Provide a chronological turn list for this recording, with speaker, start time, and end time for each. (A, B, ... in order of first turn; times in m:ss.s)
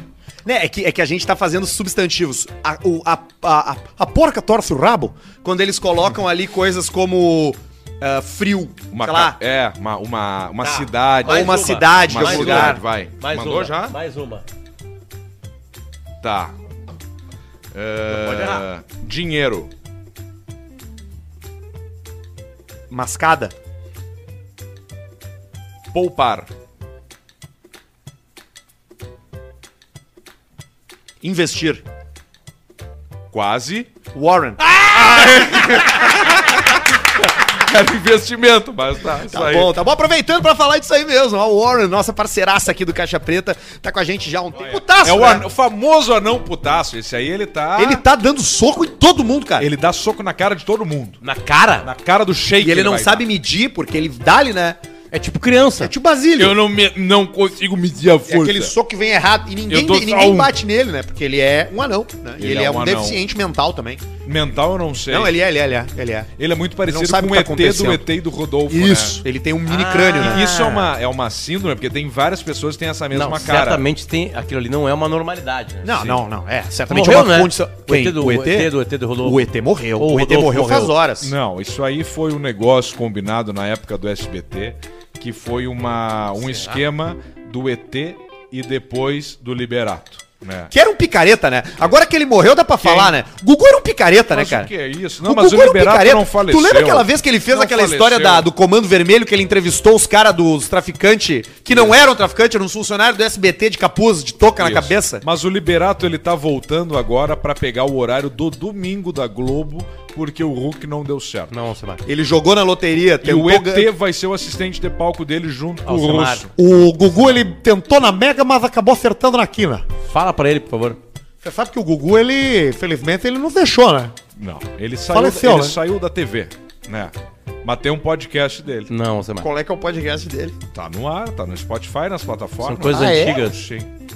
0:00.4-0:09.4 A
0:08.9-0:14.0 B
0:10.6-0:14.4 C
0:11.2-0:12.8 A
0:16.2-0:16.5 B
0:17.7-0:19.7 B
0:18.1-0:18.7 C
0:22.9-0:23.5 A
0:25.9-0:26.5 B
0:31.2-0:31.8 A
0:33.3-0:33.9 B
0:34.1-0:36.2 A
0:34.7-0:39.7 B
0:39.3-0:45.5 A
0:44.6-0:48.0 B
0:47.8-0:49.7 A
0:49.6-0:51.2 B
0:51.2-0:51.9 C
0:51.8-0:53.3 B
0:52.6-0:54.8 A
0:55.1-0:55.9 C
0:55.8-0:56.6 A
0:56.4-0:58.7 B
0:58.3-1:04.1 A
0:59.7-1:00.5 B
1:02.4-1:03.2 B
1:04.2-1:05.4 B
1:05.1-1:06.3 A
1:06.4-1:09.2 B
1:06.9-1:08.1 A
1:08.7-1:10.5 A
1:09.7-1:10.9 C
1:10.2-1:13.8 B
1:13.1-1:16.0 C
1:15.8-1:21.3 A
1:16.0-1:16.2 B
1:16.9-1:19.5 C
1:20.0-1:20.9 C
1:21.2-1:30.7 B
1:26.4-1:26.8 C
1:30.7-1:34.7 A
1:32.8-1:33.2 B
1:34.3-1:38.5 B
1:35.2-1:45.2 A
1:44.6-1:51.6 B
1:51.5-1:52.0 C
1:52.0-1:53.9 A
1:53.2-1:56.5 B
1:55.9-1:56.5 C
1:56.6-1:59.8 A
2:00.1-2:01.0 C
2:01.4-2:04.2 A
2:04.4-2:08.9 B
2:05.1-2:05.8 A
2:08.9-2:09.5 C
2:09.4-2:10.6 A
2:10.7-2:13.9 B
2:12.6-2:13.6 C
2:12.9-2:13.4 A